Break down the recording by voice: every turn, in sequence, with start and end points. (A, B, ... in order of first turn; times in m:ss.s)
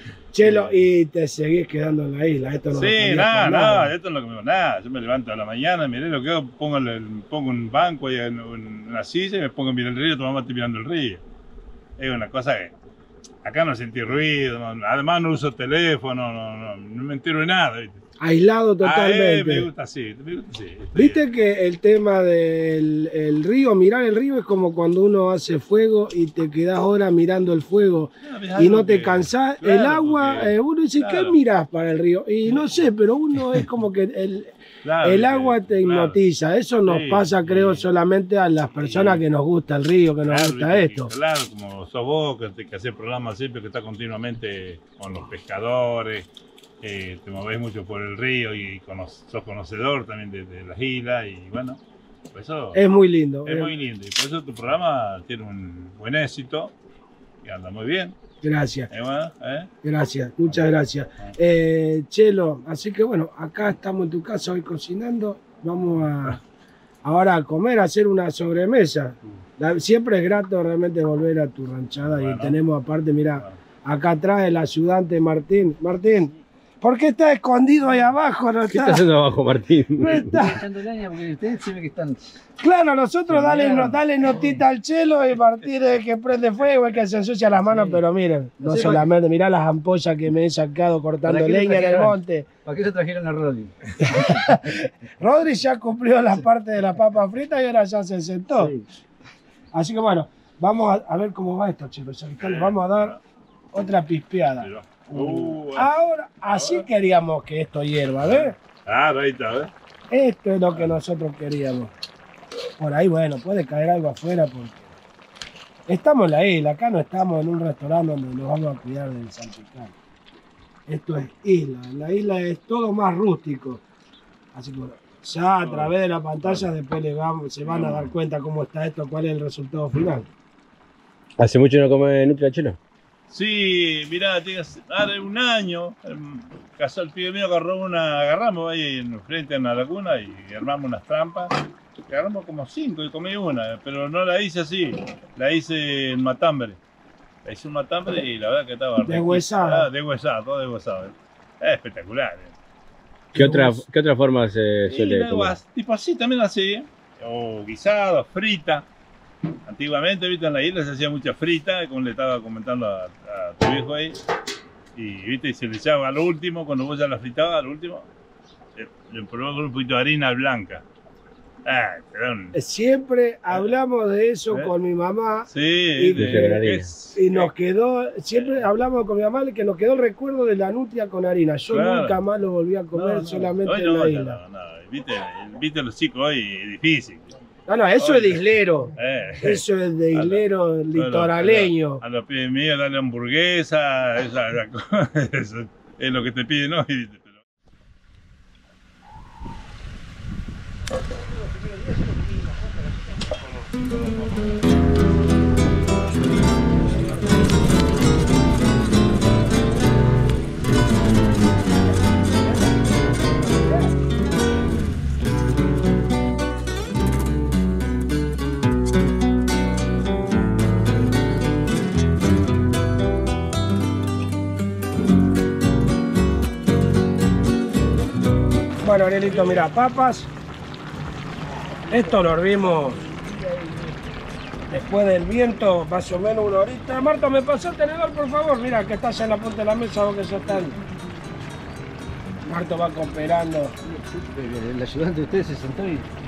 0:00.3-0:03.9 A
0:00.4-0:00.8 B
0:02.7-0:11.2 B
0:12.0-0:12.7 B
0:13.4-0:18.0 B
0:18.2-0:19.7 A
0:18.8-0:21.2 B
0:21.0-0:41.1 A
0:28.2-0:31.4 B
0:34.8-0:36.2 B
0:36.9-0:37.9 B
0:38.7-0:39.2 B
0:40.2-0:46.3 B
0:46.8-0:51.8 B
0:52.3-0:52.8 B
0:52.7-0:53.7 A
0:53.4-0:56.7 B
0:57.4-0:58.2 B
0:58.4-0:58.9 A
0:58.9-0:59.7 B
0:59.8-1:06.4 A
1:07.0-1:19.1 A
1:12.1-1:12.6 B
1:18.7-1:20.4 C
1:20.0-1:20.6 A
1:20.2-1:22.4 D
1:22.6-1:32.5 A
1:23.3-1:24.6 D
1:27.6-1:28.0 D
1:28.6-1:29.1 D
1:31.2-1:34.5 D
1:34.0-1:38.7 A
1:38.6-1:38.8 D
1:39.7-1:43.2 A
1:42.4-1:43.2 B
1:43.7-1:48.6 A
1:44.6-1:45.9 B
1:46.5-1:46.9 B
1:48.2-1:49.7 B
1:50.1-1:51.9 A
1:52.8-1:54.9 A
1:55.9-2:00.0 A
2:00.9-2:03.8 A
2:04.5-2:10.3 A
2:05.6-2:06.7 B
2:07.6-2:08.1 B
2:11.4-2:12.8 C
2:13.3-2:21.6 B
2:22.1-2:26.8 B
2:27.4-2:32.5 B
2:29.0-2:29.9 A
2:33.3-2:33.8 A
2:33.4-2:35.6 C
2:34.9-2:38.9 B
2:39.7-2:44.2 B
2:45.0-2:48.1 B
2:48.8-2:50.8 B
2:51.7-2:52.6 B
2:52.5-2:56.6 A
2:55.5-2:57.5 B
2:56.2-2:56.9 C
2:57.1-3:04.4 A
3:01.7-3:02.2 B
3:02.9-3:07.3 B
3:07.7-3:12.0 A
3:08.0-3:17.4 B
3:48.8-3:50.3 A
3:51.9-3:53.0 A
3:53.1-3:53.9 D
3:54.7-4:00.8 A
4:02.4-4:03.7 A
4:03.8-4:06.1 D